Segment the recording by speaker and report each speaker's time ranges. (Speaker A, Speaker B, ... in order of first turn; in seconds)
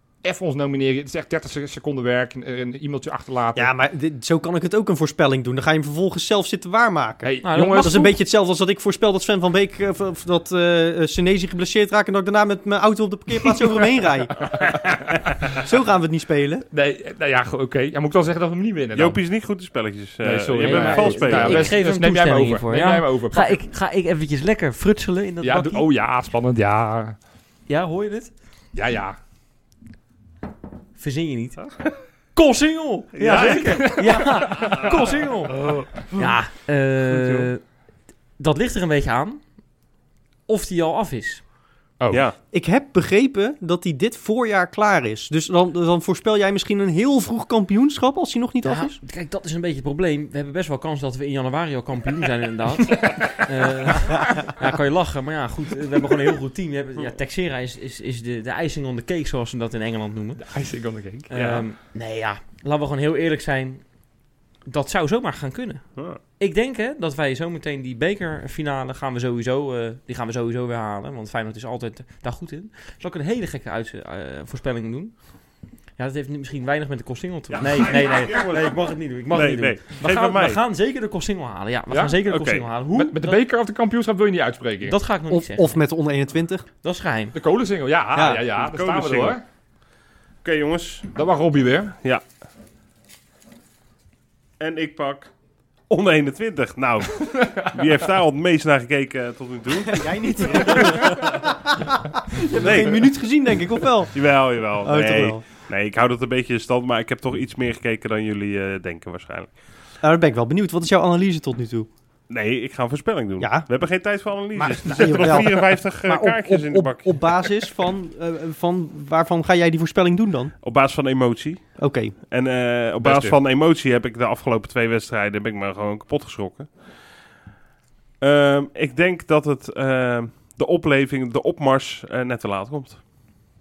Speaker A: 0.2-3.7, 7.2-8.1, 14.6-15.1, 16.7-19.2, 20.2-23.6, 25.4-27.2, 28.7-29.2, 33.3-34.9, 52.9-53.4, 60.4-61.6, 81.9-82.2, 82.9-84.9, 87.3-89.4, 91.1-92.0, 97.2-97.5, 123.0-123.3
Speaker B: 3.5-14.8, 15.4-16.6, 42.5-49.0, 85.3-86.7, 88.1-88.4, 99.8-104.2, 104.8-105.4, 110.0-111.9, 113.4-113.7, 114.5-120.5, 121.8-122.2
Speaker C: 7.4-8.1, 20.6-25.9, 27.7-28.3, 31.0-31.6, 32.3-35.6, 36.1-37.6, 38.4-39.4, 40.5-41.4, 48.6-60.4, 61.3-63.8, 64.7-75.2, 76.0-83.4, 84.8-85.8, 86.8-87.3
Speaker D: 18.9-21.8, 33.1-35.7, 77.5-80.6, 82.2-82.7, 88.6-89.4, 90.4-91.1, 94.6-95.3, 95.9-101.3, 102.5-103.2, 104.1-109.5, 112.3-117.5, 120.6-121.6, 122.3-126.7, 128.2-133.0